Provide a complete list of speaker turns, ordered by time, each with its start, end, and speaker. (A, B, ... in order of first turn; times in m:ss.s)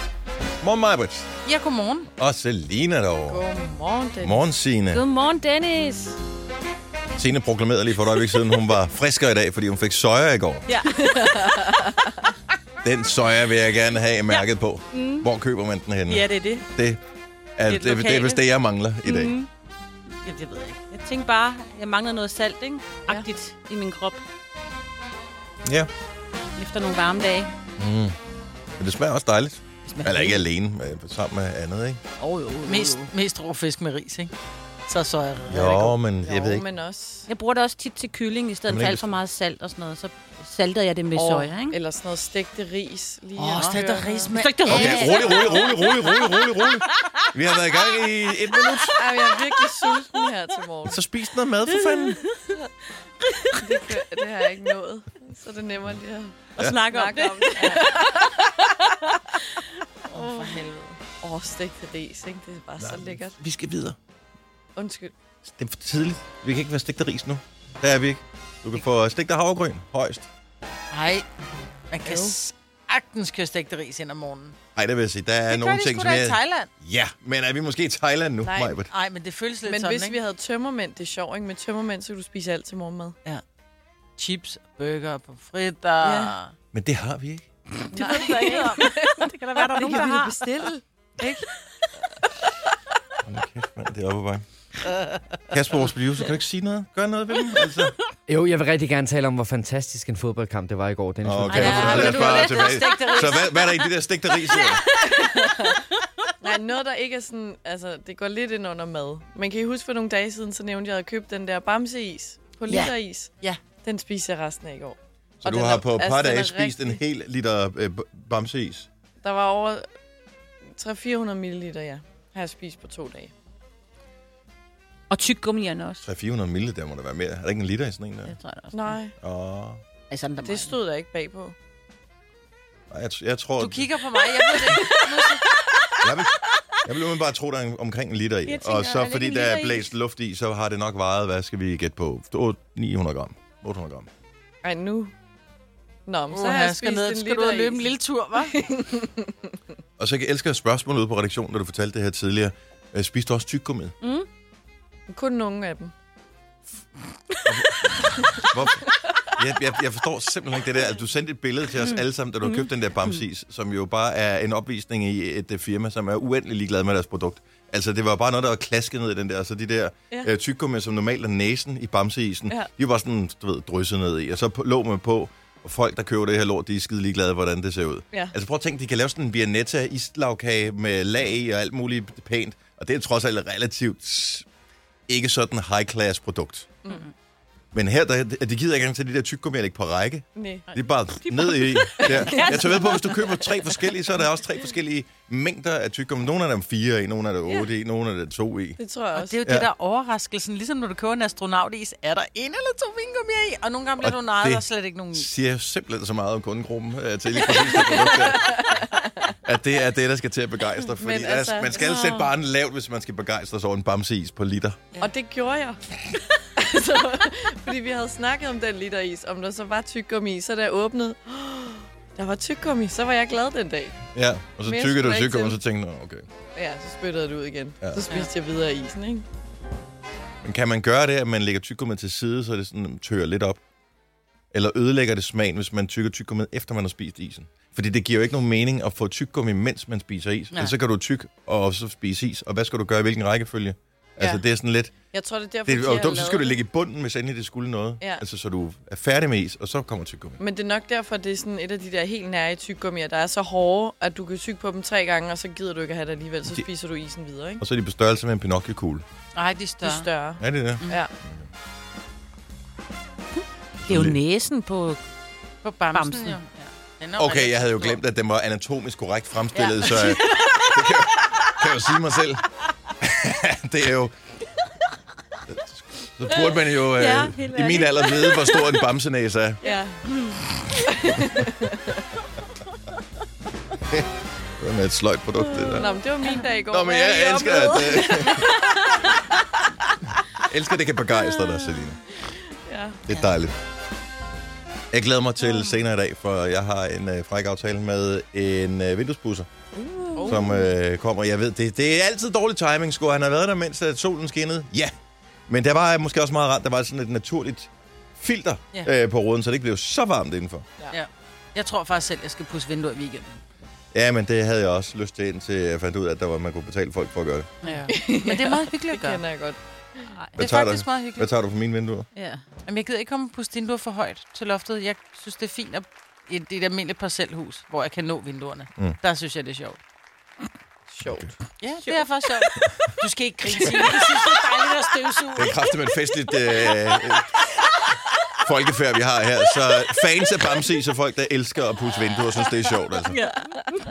0:00.6-0:01.3 A
0:01.4-0:02.1 B
0:02.2-0:03.4 A
0:03.3-0:04.4 C
0:04.2-0:05.0 A
0:04.9-0:06.2 D
0:07.2-0:10.6 A
0:10.7-0:11.6 D
0:11.0-0:12.2 C
0:12.8-0:17.0 A
0:14.3-0:15.3 D
0:16.1-0:16.5 B
0:16.3-0:16.6 D
0:17.6-0:19.4 A
0:17.8-0:18.4 D
0:19.0-0:19.5 D
0:20.2-0:20.8 B
0:20.8-0:24.2 D
0:25.6-0:25.9 A
0:26.6-0:27.5 D
0:27.8-0:28.1 A
0:28.8-0:32.0 A
0:30.0-0:30.4 D
0:32.2-0:33.1 D
0:32.6-0:34.3 B
0:34.9-0:36.0 B
0:35.5-0:36.6 A
0:36.2-0:37.3 C
0:37.3-0:41.8 D
0:38.7-0:39.0 A
0:41.1-0:44.3 C
0:43.4-0:45.7 B
0:44.3-0:47.3 D
0:44.6-0:49.0 A
0:48.9-0:51.0 C
0:50.8-0:52.2 A
0:51.7-0:52.6 D
0:53.2-0:53.9 D
0:53.5-1:00.6 C
0:56.6-0:59.1 D
1:00.1-1:01.0 B
1:01.2-1:03.4 C
1:02.8-1:04.0 A
1:04.8-1:05.1 C
1:05.4-1:10.3 A
1:10.9-1:11.2 B
1:11.9-1:14.6 B
1:12.0-1:12.4 C
1:14.7-1:18.9 A
1:15.5-1:16.7 B
1:18.4-1:18.8 C
1:18.9-1:20.2 B
1:19.6-1:23.2 C
1:24.2-1:26.5 B
1:26.0-1:26.3 C
1:26.7-1:27.4 A
1:27.9-1:30.2 B
1:27.9-1:31.3 C
1:27.9-1:30.7 D
1:33.2-1:34.4 A
1:35.5-1:37.9 A
1:38.3-1:42.2 E
1:41.2-1:44.8 A
1:41.4-1:43.9 D
1:41.6-1:43.5 B
1:44.9-1:45.8 C
1:46.4-1:57.0 C
1:52.7-1:53.6 B
1:55.4-1:58.9 A
1:59.2-1:59.8 C
2:00.7-2:03.3 C
2:05.1-2:06.0 D
2:06.0-2:08.3 A
2:08.2-2:09.0 D
2:08.7-2:09.1 C
2:09.2-2:09.8 A
2:10.2-2:10.7 B
2:10.4-2:11.5 C
2:12.9-2:13.9 A
2:13.6-2:15.5 B
2:14.4-2:15.9 C
2:16.0-2:24.1 A
2:18.4-2:19.9 D
2:24.6-2:25.1 C
2:26.0-2:29.3 C
2:26.3-2:28.5 B
2:30.0-2:33.9 A
2:34.0-2:34.3 D
2:35.1-2:35.9 C
2:37.4-3:04.4 A
2:37.8-2:38.5 C
2:41.7-2:43.2 D
3:05.1-3:06.8 A
3:07.7-3:18.8 A
3:10.3-3:10.7 C
3:11.3-3:12.3 D
3:12.0-3:12.9 C
3:18.8-3:19.4 C
3:19.1-3:25.3 B
3:24.0-3:28.8 A
3:27.4-3:29.3 C
3:29.4-3:34.8 A
3:31.0-3:32.0 C
3:31.8-3:32.3 B
3:35.0-3:44.0 C
3:44.1-3:46.3 A
3:44.6-3:45.6 C
3:46.5-3:49.2 C
3:47.8-3:48.0 A
3:50.4-3:53.6 A
3:54.5-4:04.9 A
4:05.1-4:06.6 C
4:05.6-4:10.4 A
4:10.4-4:17.6 C
4:17.6-4:19.0 A
4:19.3-4:20.1 B
4:19.8-4:21.1 C
4:20.4-4:21.5 A
4:23.8-4:24.2 A
4:23.9-4:25.0 D
4:25.6-4:28.0 B
4:25.9-4:26.4 D
4:27.2-4:32.4 A
4:29.5-4:30.7 B
4:33.0-4:34.1 A
4:35.5-4:39.6 A
4:36.8-4:38.8 D
4:39.6-4:40.0 C
4:39.6-4:40.4 D
4:40.7-4:42.0 C
4:44.6-4:46.0 A
4:45.6-4:46.4 D
4:45.7-4:50.4 C
4:46.7-4:48.6 A
4:50.3-4:52.0 A
4:52.2-4:53.0 C
4:53.1-4:53.5 A
4:54.9-4:59.5 A
4:59.7-5:00.7 C
5:00.1-5:00.4 B
5:00.2-5:04.9 A
5:05.5-5:10.7 A
5:10.9-5:13.4 B
5:13.9-5:17.5 A
5:17.6-5:19.2 B
5:17.9-5:20.1 C
5:20.1-5:20.4 D
5:20.3-5:22.1 A
5:20.4-5:21.3 B
5:22.1-5:22.6 D
5:22.6-5:29.8 B
5:30.9-5:31.4 C
5:31.0-5:31.3 A
5:31.6-5:35.6 B
5:31.8-5:32.1 D
5:35.4-5:37.5 A
5:38.4-5:43.2 A